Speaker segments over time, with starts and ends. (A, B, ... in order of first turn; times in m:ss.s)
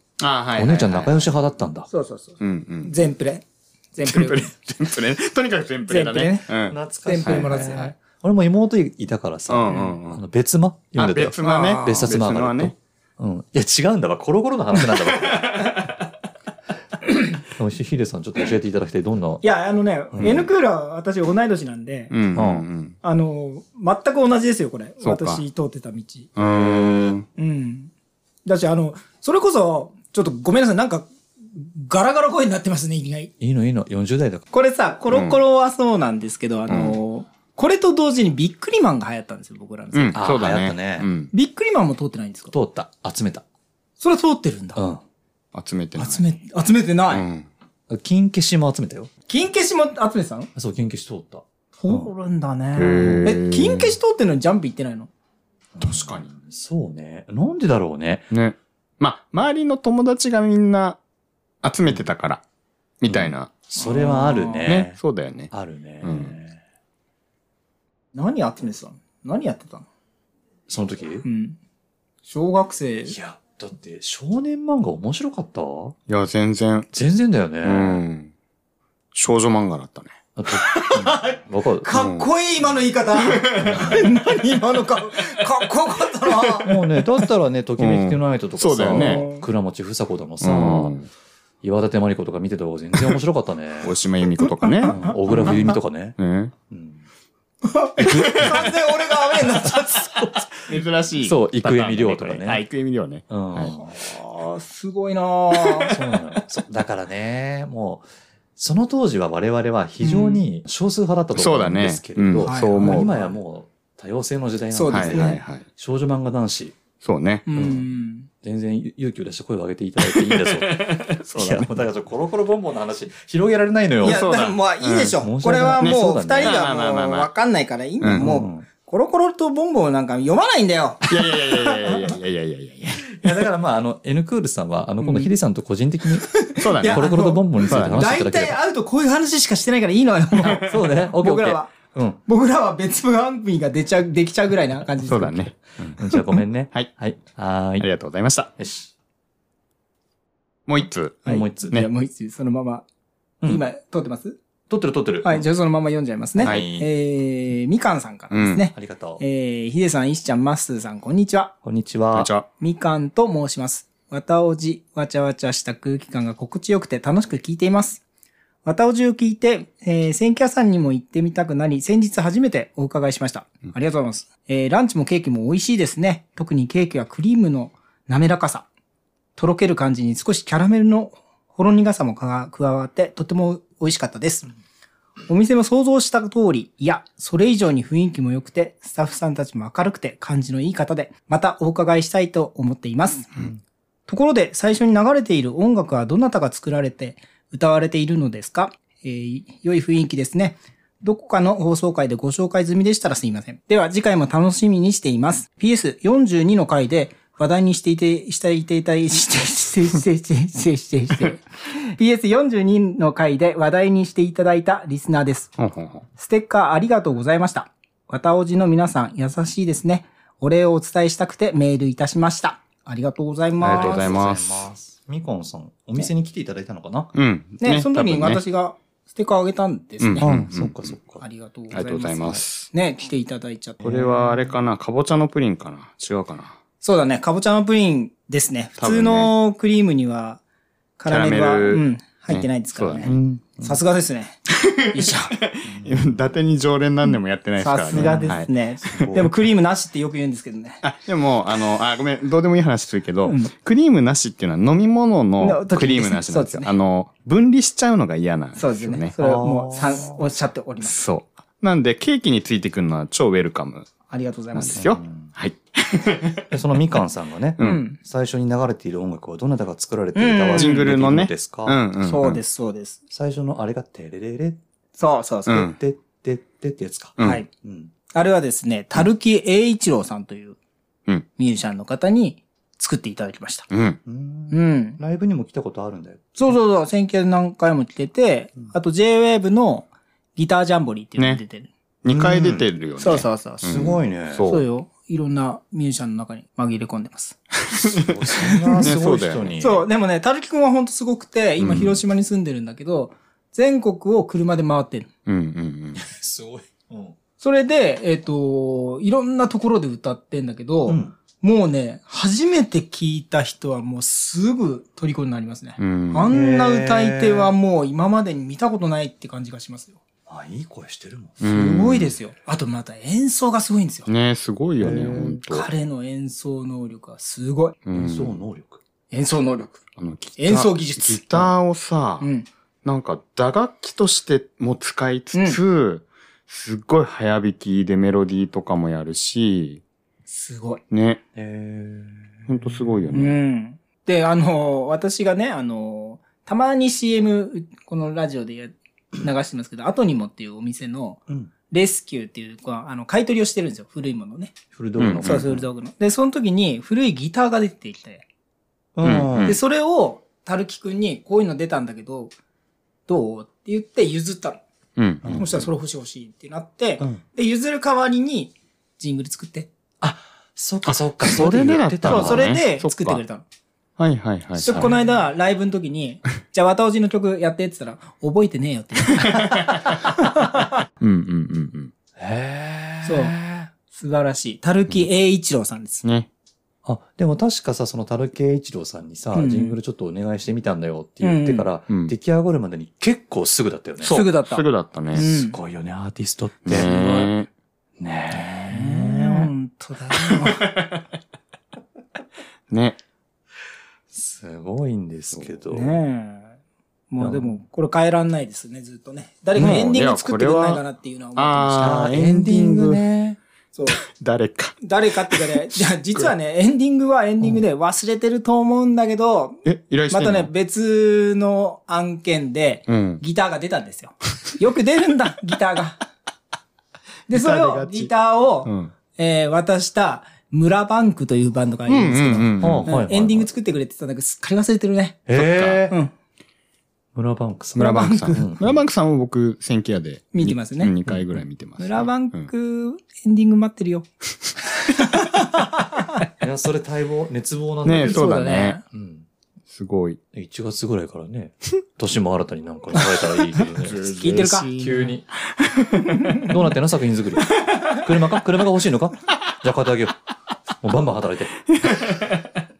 0:00.2-0:01.2 A
0:00.5-0:01.9 B
0:01.9-0:04.5 C
0:02.4-0:03.1 A
0:04.0-0:07.7 A
0:05.9-0:08.0 C
0:06.6-0:15.5 B
0:09.5-0:10.2 A
0:10.9-0:12.7 A
0:11.4-0:12.1 C
0:15.2-0:15.9 A
0:17.3-0:19.4 B
0:19.4-0:22.1 C
0:20.1-0:20.4 B
0:22.1-0:23.0 A
0:22.4-0:22.6 B
0:23.0-0:26.3 C
0:25.0-0:25.4 A
0:26.4-0:27.3 A
0:27.3-0:27.9 C
0:28.4-0:33.3 C
0:33.4-0:34.4 B
0:34.5-0:40.2 C
0:35.1-0:35.4 A
0:36.7-0:37.0 A
0:39.9-0:41.3 A
0:40.1-0:41.1 B
0:41.3-0:42.5 C
0:42.5-0:43.4 B
0:44.0-0:44.8 C
0:44.8-0:45.0 B
0:45.5-0:46.2 A
0:46.0-0:47.2 C
0:47.1-0:47.5 A
0:47.9-0:49.1 B
0:49.3-0:50.5 C
0:50.6-0:52.1 B
0:51.7-0:55.1 C
0:52.7-0:54.0 A
0:55.7-0:58.3 B
0:55.8-0:56.3 A
0:58.3-1:01.0 A
1:01.6-1:02.4 A
1:03.0-1:03.6 A
1:03.1-1:06.6 B
1:03.8-1:04.7 C
1:04.6-1:05.5 A
1:06.0-1:06.4 A
1:08.1-1:09.9 C
1:10.7-1:11.2 B
1:11.2-1:11.6 C
1:12.2-1:13.2 C
1:13.0-1:16.0 B
1:16.1-1:16.9 A
1:16.9-1:18.0 B
1:17.6-1:18.3 A
1:19.1-1:20.1 A
1:20.4-1:22.0 B
1:20.7-1:26.8 C
1:21.9-1:22.3 A
1:23.2-1:23.8 A
1:26.6-1:31.0 B
1:27.8-1:29.2 A
1:28.9-1:29.4 C
1:30.4-1:31.1 A
1:31.6-1:34.0 B
1:33.8-1:36.5 A
1:34.4-1:35.7 C
1:34.9-1:36.2 B
1:36.7-1:37.0 B
1:37.6-1:40.8 C
1:38.0-1:38.6 A
1:38.0-1:38.7 B
1:39.6-1:40.2 B
1:40.7-1:43.7 A
1:41.2-1:42.6 B
1:43.3-1:43.9 B
1:43.7-1:45.9 C
1:45.6-1:46.0 A
1:45.9-1:56.8 B
1:51.3-1:53.1 A
1:52.4-1:53.4 C
1:54.7-1:55.4 C
1:54.9-1:55.6 A
1:57.0-1:57.5 A
1:57.4-1:58.3 C
1:57.5-1:57.9 B
1:58.4-2:04.3 B
2:00.0-2:01.7 A
2:04.0-2:11.9 C
2:04.0-2:05.2 A
2:05.2-2:06.7 B
2:05.8-2:07.3 A
2:08.0-2:08.3 A
2:08.2-2:08.7 B
2:11.0-2:13.2 A
2:13.0-2:18.6 B
2:15.0-2:15.3 C
2:16.2-2:21.7 C
2:16.6-2:17.1 A
2:17.7-2:18.0 A
2:20.5-2:22.2 B
2:22.2-2:25.5 C
2:25.0-2:26.0 A
2:26.0-2:27.9 B
2:27.8-2:28.5 A
2:28.6-2:28.9 B
2:30.7-2:31.9 A
2:31.2-2:32.8 C
2:31.2-2:31.8 B
2:33.4-2:34.4 C
2:34.7-2:35.5 B
2:35.2-2:41.5 C
2:36.4-2:36.9 B
2:36.4-2:36.6 A
2:38.3-2:38.6 A
2:38.7-2:39.2 B
2:41.6-2:42.3 B
2:42.1-2:42.5 A
2:42.6-2:48.0 C
2:48.6-2:58.6 C
2:59.4-3:04.5 C
3:05.3-3:13.5 C
3:14.1-3:35.5 C
3:35.6-3:36.1 A
3:36.1-3:44.2 C
3:43.6-3:44.7 A
3:43.6-3:47.1 B
3:47.1-3:48.4 A
3:47.6-3:50.3 C
3:50.0-3:50.9 A
3:50.2-3:51.2 B
3:51.2-3:54.1 C
3:51.7-3:52.7 A
3:53.8-3:56.6 A
3:53.8-3:54.3 B
3:56.8-4:00.4 C
3:58.8-3:59.3 A
4:01.0-4:05.3 C
4:01.1-4:03.2 A
4:03.0-4:03.8 B
4:04.6-4:09.3 A
4:05.6-4:06.3 B
4:07.6-4:10.8 C
4:07.9-4:08.4 B
4:08.9-4:09.3 B
4:10.8-4:19.2 A
4:13.2-4:13.5 C
4:15.4-4:16.7 C
4:18.6-4:20.9 C
4:19.2-4:20.2 B
4:20.8-4:23.9 A
4:24.1-4:24.9 C
4:24.5-4:26.4 A
4:24.8-4:25.3 B
4:26.5-4:31.8 B
4:27.6-4:28.0 C
4:30.1-4:30.9 C
4:30.6-4:32.4 A
4:32.0-4:33.0 C
4:33.1-4:34.6 B
4:35.0-4:35.7 C
4:35.5-4:37.9 B
4:37.2-4:37.4 A
4:37.2-4:37.5 C
4:38.1-4:40.6 C
4:41.3-4:43.7 C
4:43.7-4:44.0 A
4:44.0-4:46.6 B
4:44.5-4:45.0 C
4:46.4-4:51.7 C
4:51.2-4:51.4 A
4:52.0-4:54.6 A
4:52.1-4:52.6 B
4:53.0-4:53.9 C
4:53.6-4:54.5 B
4:54.4-4:57.4 C
4:57.9-4:59.8 B
4:58.4-4:58.9 C
4:58.8-4:59.6 A
4:59.6-5:05.1 C
5:01.6-5:02.0 A
5:05.2-5:06.0 A
5:05.9-5:07.2 B
5:07.4-5:20.0 C
5:10.9-5:11.2 B
5:15.8-5:16.3 A
5:16.3-5:17.5 B
5:20.3-5:21.5 B
5:21.4-5:22.1 A
5:21.5-5:24.1 C
5:24.1-5:25.7 A
5:24.8-5:25.4 B
5:25.5-5:27.8 C
5:27.8-5:28.4 A
5:27.9-5:28.8 B
5:29.1-5:29.8 C
5:30.0-5:32.3 A
5:30.4-5:31.5 C
5:32.2-5:32.5 C
5:32.8-5:39.8 A
5:35.3-5:35.6 C
5:40.2-5:40.8 C
5:40.9-5:41.2 A
5:41.3-5:43.3 B
5:42.5-5:43.4 A
5:43.1-5:54.5 C
5:54.7-5:55.6 B
5:55.0-5:55.4 A
5:55.2-5:58.2 C
5:59.0-5:59.6 B
5:59.0-5:59.6 A
5:59.4-6:02.3 C
6:03.1-6:04.6 C
6:05.0-6:05.4 A
6:05.2-6:05.7 B
6:05.2-6:09.7 C
6:10.0-6:12.6 B
6:11.2-6:13.2 A
6:12.0-6:13.4 C
6:14.0-6:14.9 A
6:14.6-6:20.7 C
6:14.6-6:14.9 B
6:19.2-6:20.0 A
6:21.0-6:21.9 A
6:22.2-6:23.7 B
6:23.0-6:26.0 C
6:26.8-6:34.2 B
6:29.3-6:29.8 C
6:31.2-6:31.7 C
6:31.9-6:32.1 A
6:34.0-6:35.6 C
6:34.0-6:35.2 A
6:35.1-6:37.2 B
6:36.6-6:37.5 A
6:36.7-6:37.3 C
6:38.0-6:39.5 B
6:38.7-6:40.6 C
6:40.4-6:40.9 A
6:42.7-6:43.0 A
6:44.1-6:46.0 B
6:45.3-6:45.6 A
6:45.7-6:46.5 C
6:47.1-6:52.0 C
6:47.2-6:47.6 B
6:49.5-6:50.8 A
6:51.4-6:53.1 A
6:51.7-6:53.4 B
6:53.7-6:54.0 C
6:53.8-6:55.6 A
6:54.8-7:06.0 C
6:59.6-7:00.5 A
7:02.9-7:03.2 A
7:07.3-7:15.2 C
7:07.3-7:08.1 A
7:08.6-7:08.9 A
7:11.9-7:12.9 A
7:12.6-7:13.5 B
7:15.3-7:16.0 B
7:15.3-7:15.8 A
7:17.1-7:18.8 B
7:17.8-7:18.5 C
7:17.8-7:22.5 A
7:20.3-7:20.9 C
7:21.1-7:21.4 B
7:21.8-7:24.1 C
7:25.2-7:25.6 C
7:26.4-7:29.3 B
7:27.8-7:28.8 A
7:28.0-7:28.8 C
7:29.7-7:30.2 A
7:30.3-7:34.0 B
7:33.8-7:34.9 A
7:34.0-7:35.0 C
7:34.5-7:35.3 B
7:35.6-7:36.4 A
7:36.4-7:40.2 B
7:40.8-7:41.6 B
7:41.8-7:42.4 A